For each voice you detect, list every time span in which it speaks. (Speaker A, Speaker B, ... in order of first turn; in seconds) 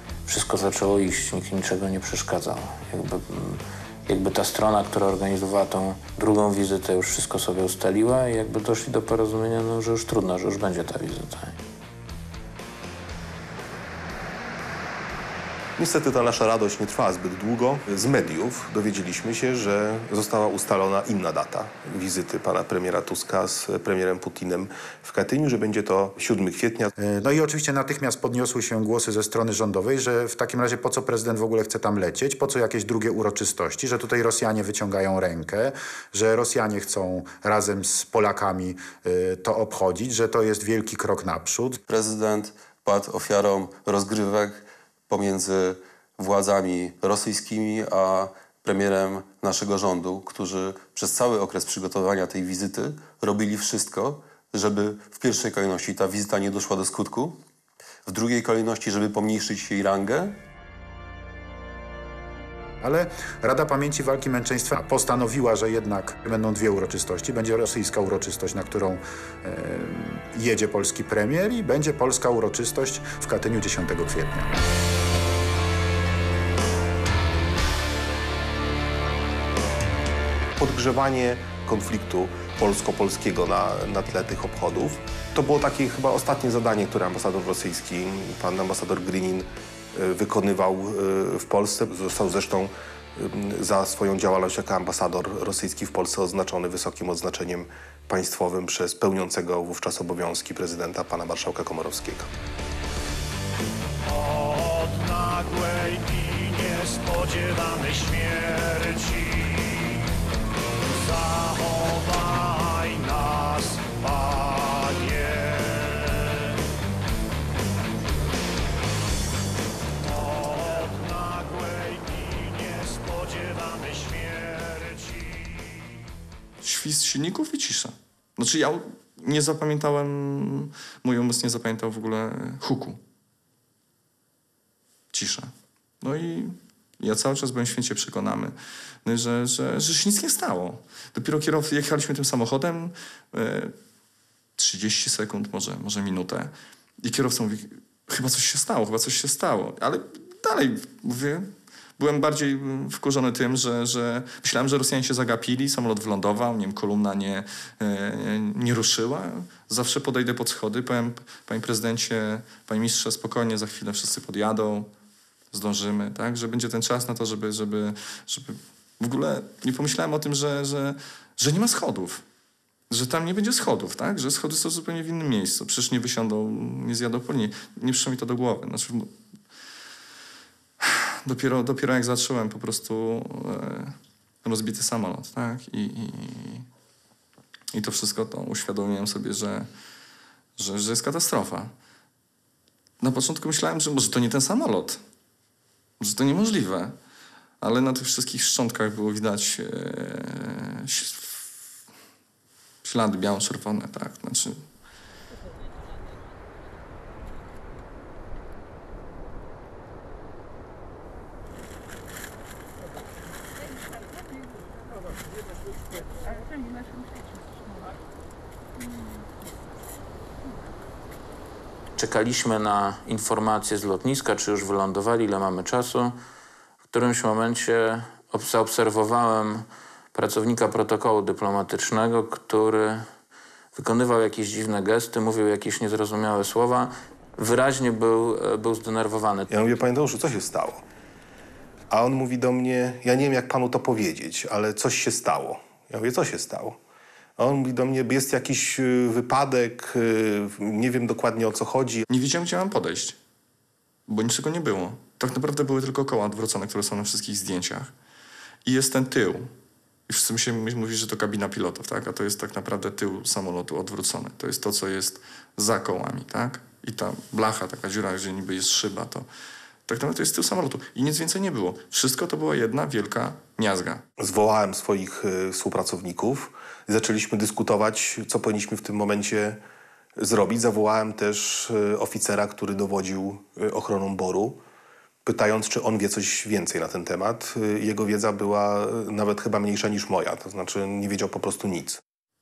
Speaker A: 0.2-11.6, 221.9-226.2, 226.9-233.1, 233.7-239.5
Speaker B: 15.8-26.9, 80.6-102.3, 239.5-240.8, 241.9-246.8, 247.4-252.1, 274.2-279.6, 280.2-284.6, 285.2-292.0
Speaker C: 27.0-41.8, 62.8-74.6
Speaker D: 41.9-57.4, 58.0-60.4
Speaker E: 105.0-109.2, 111.7-113.8, 115.1-115.5, 121.6-121.9, 124.2-124.5
Speaker F: 126.6-133.0, 135.1-143.7, 144.6-164.9, 165.5-172.2, 172.9-179.1, 180.8-186.7, 187.7-189.7, 190.6-191.7, 193.0-195.0, 196.0-196.9, 197.6-201.4, 202.8-204.6, 252.1-253.2, 254.1-257.9, 258.6-259.5, 260.1-269.3, 269.9-274.0